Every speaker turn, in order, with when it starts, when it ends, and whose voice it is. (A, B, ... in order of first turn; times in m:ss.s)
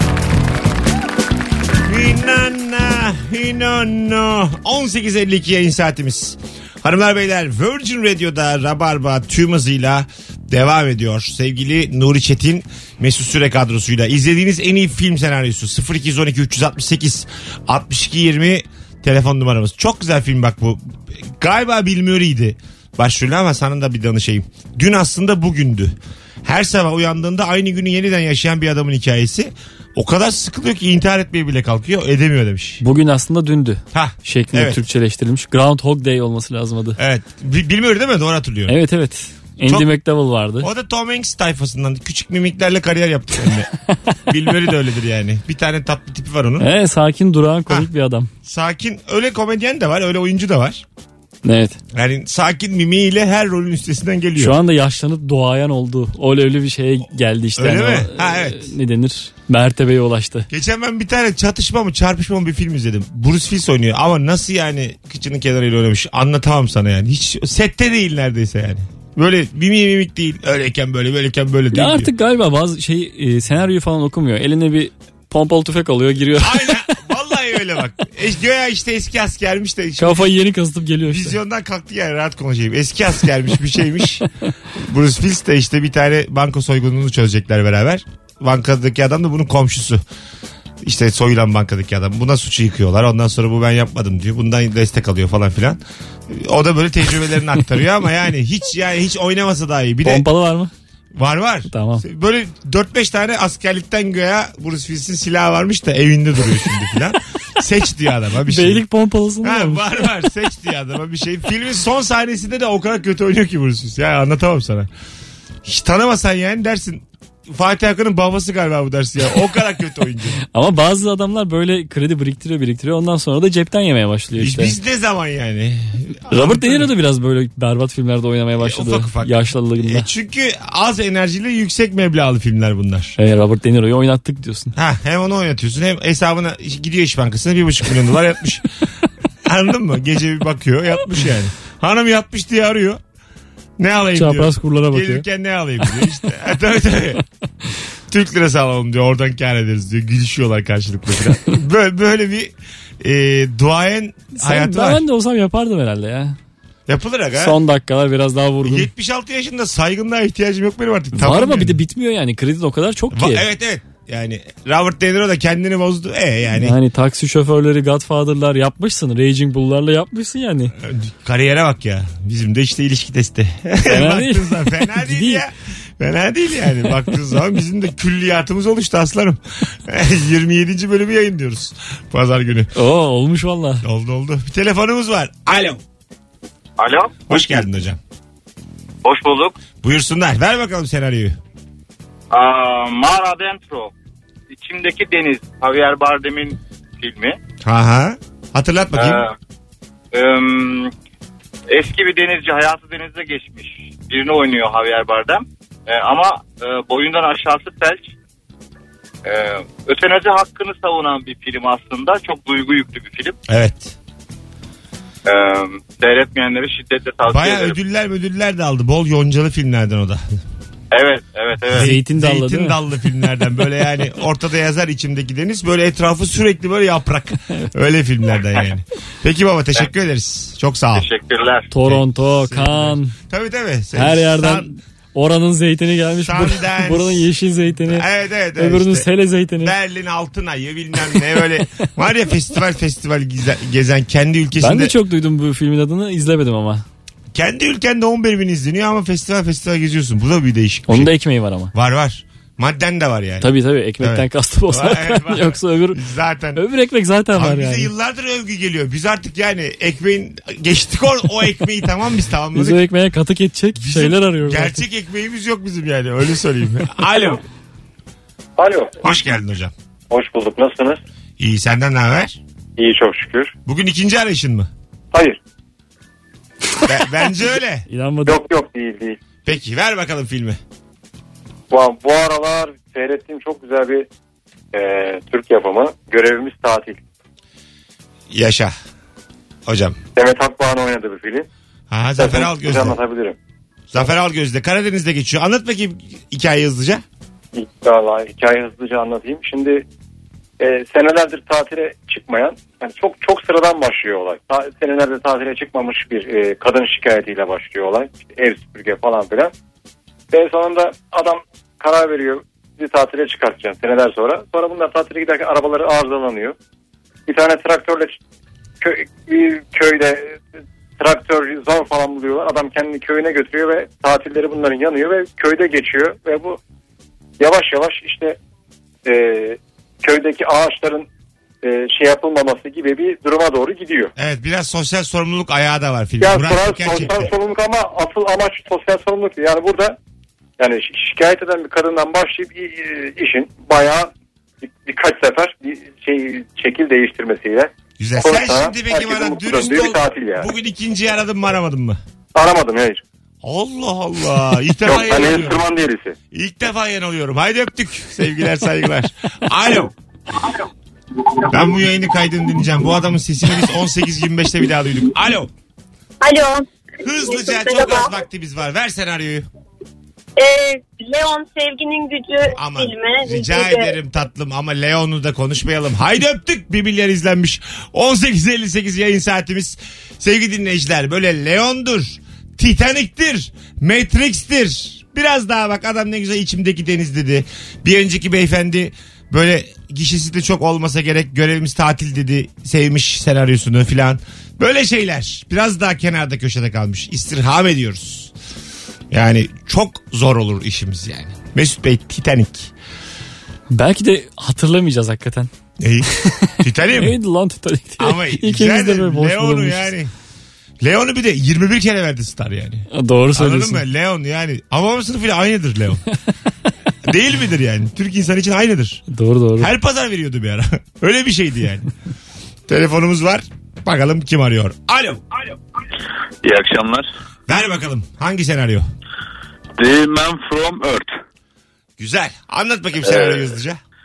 0:01.8-0:20.8 A
0:21.4-0:32.8 A
0:32.8-0:37.0 B
0:33.9-0:34.8 A
0:37.0-0:38.8 A
0:38.7-0:40.7 B
0:39.6-0:39.9 A
0:40.6-0:43.7 A
0:44.3-0:46.7 A
0:46.6-0:48.3 B
0:48.4-0:50.8 A
0:51.4-0:51.8 B
0:51.9-0:54.6 A
0:54.4-1:00.5 B
0:57.6-0:58.7 A
1:00.5-1:12.1 A
1:11.7-1:16.8 B
1:16.4-1:20.3 A
1:20.0-1:21.4 B
1:21.1-1:30.0 A
1:30.8-1:40.3 A
1:40.0-1:40.7 B
1:41.2-1:48.8 A
1:41.7-1:42.0 B
1:48.5-1:50.1 B
1:49.4-1:54.9 A
1:55.6-2:00.4 A
2:00.5-2:04.8 B
2:04.4-2:06.9 A
2:06.3-2:10.1 B
2:08.6-2:13.2 A
2:13.2-2:14.7 B
2:14.8-2:18.7 A
2:19.4-2:23.0 A
2:23.8-2:27.2 A
2:24.2-2:25.2 B
2:28.1-2:35.0 A
2:34.3-2:36.4 B
2:36.9-2:37.6 A
2:37.4-2:38.9 B
2:38.6-2:41.8 A
2:41.1-2:43.5 B
2:43.1-2:46.8 A
2:46.6-2:50.7 B
2:50.8-3:02.7 A
2:53.9-2:55.4 B
3:02.8-3:03.8 B
3:03.8-3:05.8 A
3:06.8-3:07.2 C
3:07.3-3:08.0 A
3:09.0-3:09.6 C
3:09.8-3:11.4 A
3:12.3-3:13.9 C
3:14.5-3:17.4 C
3:17.6-3:19.2 A
3:19.0-3:19.3 C
3:20.1-3:20.9 C
3:21.7-3:28.1 C
3:29.2-3:33.4 C
3:33.5-3:34.0 A
3:35.3-3:37.8 C
3:37.3-3:40.2 A
3:40.9-3:41.9 C
3:41.6-3:51.1 A
3:41.7-3:42.8 B
3:50.9-3:51.7 C
3:51.7-3:53.2 B
3:51.8-3:54.7 A
3:54.0-3:58.1 B
3:56.2-3:57.3 A
3:57.9-3:59.1 A
3:58.6-3:59.8 B
3:59.6-4:04.9 A
4:04.6-4:06.8 B
4:07.3-4:11.1 A
4:10.9-4:11.7 B
4:11.7-4:13.5 A
4:13.4-4:16.0 B
4:14.0-4:16.6 A
4:16.6-4:17.9 B
4:17.4-4:22.8 A
4:22.5-4:24.8 B
4:23.8-4:27.4 A
4:28.6-4:28.9 D
4:29.0-4:29.7 A
4:30.1-4:31.0 D
4:31.4-4:32.4 A
4:32.8-4:33.5 D
4:33.7-4:34.7 A
4:35.1-4:35.4 D
4:36.8-4:37.9 A
4:37.9-4:38.4 B
4:38.3-4:39.2 D
4:39.4-4:40.6 A
4:41.7-4:44.1 D
4:44.7-4:47.0 D
4:48.3-4:48.7 A
4:49.7-4:50.0 A
4:50.2-4:51.5 D
4:51.9-4:53.0 A
4:52.2-4:53.4 D
4:53.9-4:57.0 A
4:57.6-4:59.9 D
5:00.6-5:09.5 D
5:10.3-5:16.6 D
5:17.3-5:18.2 D
5:18.8-5:20.4 D
5:21.0-5:26.6 D
5:27.4-5:28.4 D
5:29.1-5:31.1 D
5:31.6-5:34.1 D
5:34.2-5:37.3 A
5:36.2-5:40.0 D
5:40.6-5:44.1 D
5:44.6-5:50.5 D
5:48.0-5:52.0 A
5:52.4-5:53.0 D
5:53.4-5:55.6 A
5:54.8-5:56.2 D
5:56.3-5:59.9 A
6:01.5-6:05.5 A
6:06.2-6:08.1 E
6:07.0-6:09.5 A
6:10.4-6:13.9 E
6:12.6-6:38.3 A
6:39.1-6:42.7 A
6:43.7-6:45.5 B
6:45.8-6:47.2 A
6:46.4-6:49.9 B
6:48.0-6:50.1 A
6:50.8-6:56.0 A
6:52.9-6:53.8 B
6:57.0-6:59.0 A
6:59.1-6:59.7 B
6:59.6-7:01.9 A
7:02.7-7:05.2 A
7:06.5-7:07.0 F
7:07.5-7:08.8 A
7:09.8-7:11.1 F
7:12.0-7:13.8 A
7:13.1-7:13.4 F